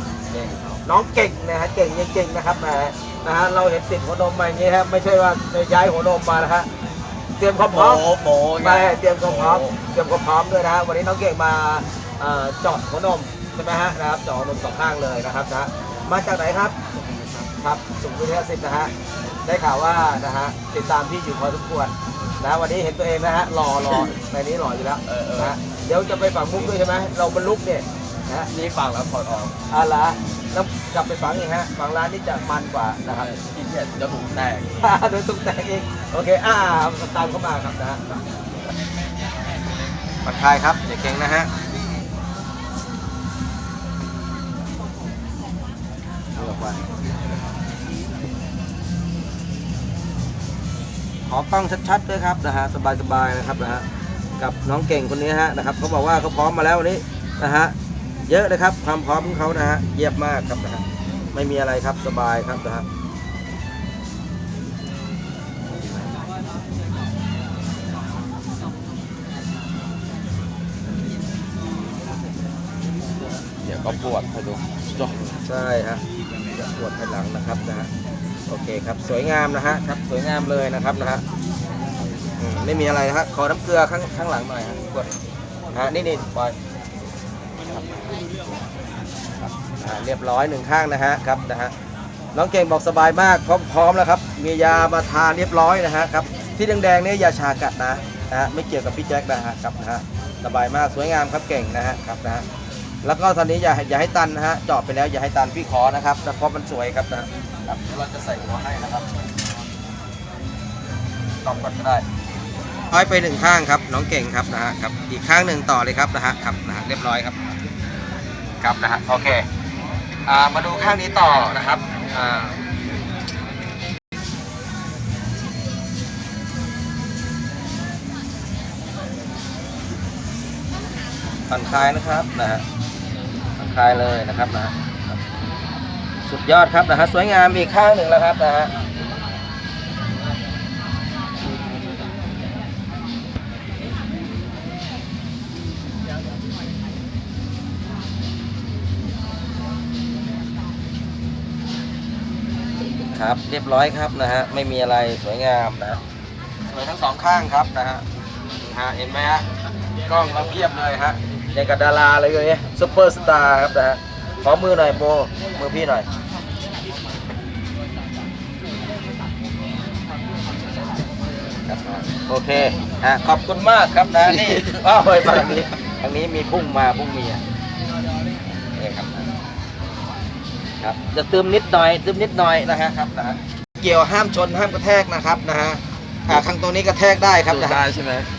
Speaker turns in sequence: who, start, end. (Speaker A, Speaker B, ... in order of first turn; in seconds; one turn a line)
Speaker A: 0.3-0.8
Speaker B: 0.8-6.7
Speaker B: 7.4-8.1
Speaker A: 7.7-9.7
Speaker B: 8.6-16.7
Speaker A: 16.9-17.5
Speaker B: 17.6-18.9
Speaker B: 19.4-28.5
Speaker A: 25.0-25.5
Speaker A: 28.5-29.5
Speaker B: 29.7-33.3
Speaker A: 33.2-34.9
Speaker B: 34.8-38.2
Speaker B: 40.2-41.5
Speaker B: 46.4-46.8
Speaker B: 51.3-53.9
Speaker B: 54.4-57.7
Speaker B: 58.3-62.9
Speaker A: 73.6-75.2
Speaker B: 75.2-77.9
Speaker B: 78.5-81.2
Speaker B: 82.4-85.1
Speaker B: 85.7-86.5
Speaker B: 87.7-88.0
Speaker B: 89.4-91.7
Speaker B: 92.3-102.5
Speaker B: 103.0-109.1
Speaker B: 111.4-112.0
Speaker B: 112.9-117.4
Speaker B: 118.6-119.5
Speaker B: 120.2-122.5
Speaker B: 131.5-132.6
Speaker B: 133.6-134.7
Speaker B: 136.2-138.7
Speaker B: 153.1-156.0
Speaker B: 156.7-158.0
Speaker B: 158.6-159.5
Speaker B: 160.0-166.1
Speaker B: 171.7-177.4
Speaker B: 178.7-179.3
Speaker B: 180.8-187.9
Speaker A: 187.5-188.3